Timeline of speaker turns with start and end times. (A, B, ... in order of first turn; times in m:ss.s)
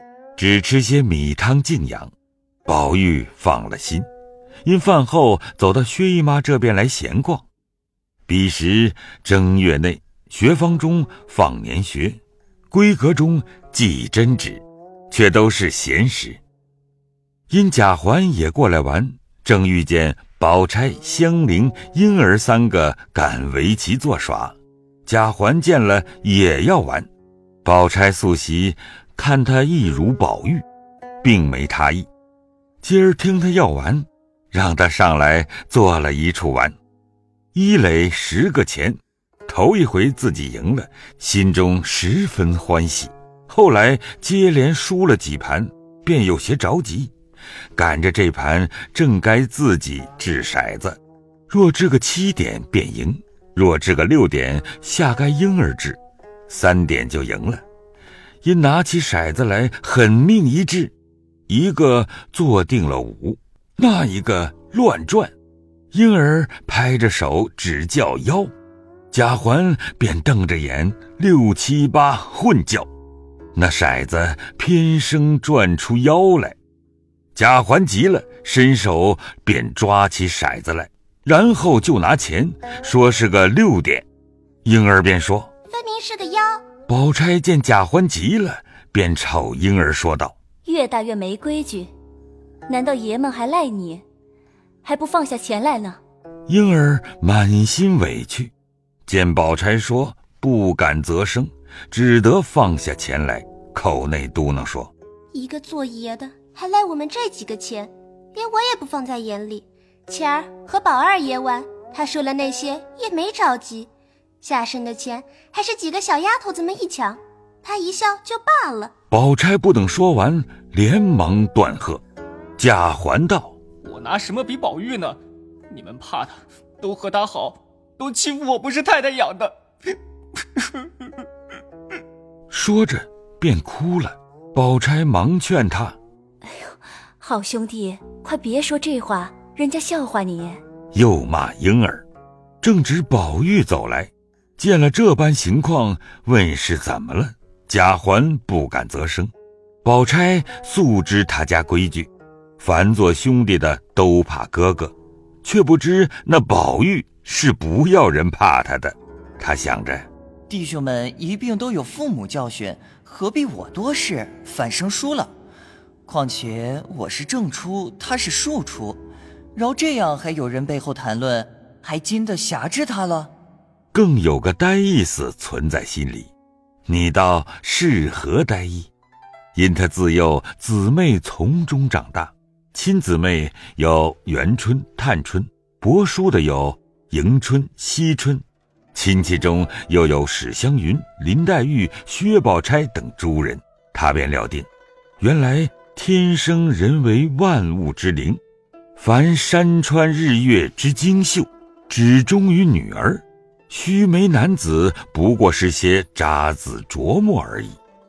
0:00.4-0:02.1 A
0:02.6-0:04.1 A
0:04.6-0:07.4 A
0:08.2-0:12.2 A
0:12.7-0:16.4 A
0:17.5-0:27.1 A
0:27.6-0:30.6 A
0:31.2-0:32.1 A
0:32.8-0:36.7 A
0:37.5-0:47.1 A
0:47.8-0:51.0 A
0:51.5-0:57.6 A
0:58.4-1:00.9 A
1:01.5-1:05.3 A
1:05.9-1:08.5 A
1:09.1-1:12.9 A
1:13.5-1:16.6 A
1:17.3-1:24.0 A
1:24.6-1:25.5 A
1:25.7-1:26.6 B
1:26.9-1:30.4 A
1:30.6-1:31.9 C
1:32.7-1:34.0 C
1:34.8-1:36.0 C
1:36.5-1:38.5 A
1:39.0-1:44.9 A
1:45.3-1:53.9 B
1:54.4-1:58.9 B
1:59.1-2:02.0 A
2:02.6-2:03.6 A
2:03.8-2:05.2 D
2:05.7-2:09.5 D
2:12.5-2:16.0 A
2:16.5-2:20.6 C
2:20.9-2:22.0 A
2:22.6-2:29.3 A
2:29.8-2:40.1 A
2:40.5-2:45.3 E
2:46.1-2:49.0 E
2:49.5-2:53.3 E
2:53.9-2:56.3 A
2:56.9-2:58.9 A
2:59.5-3:08.4 A
3:08.9-3:14.7 A
3:15.2-3:18.4 A
3:19.0-3:27.8 A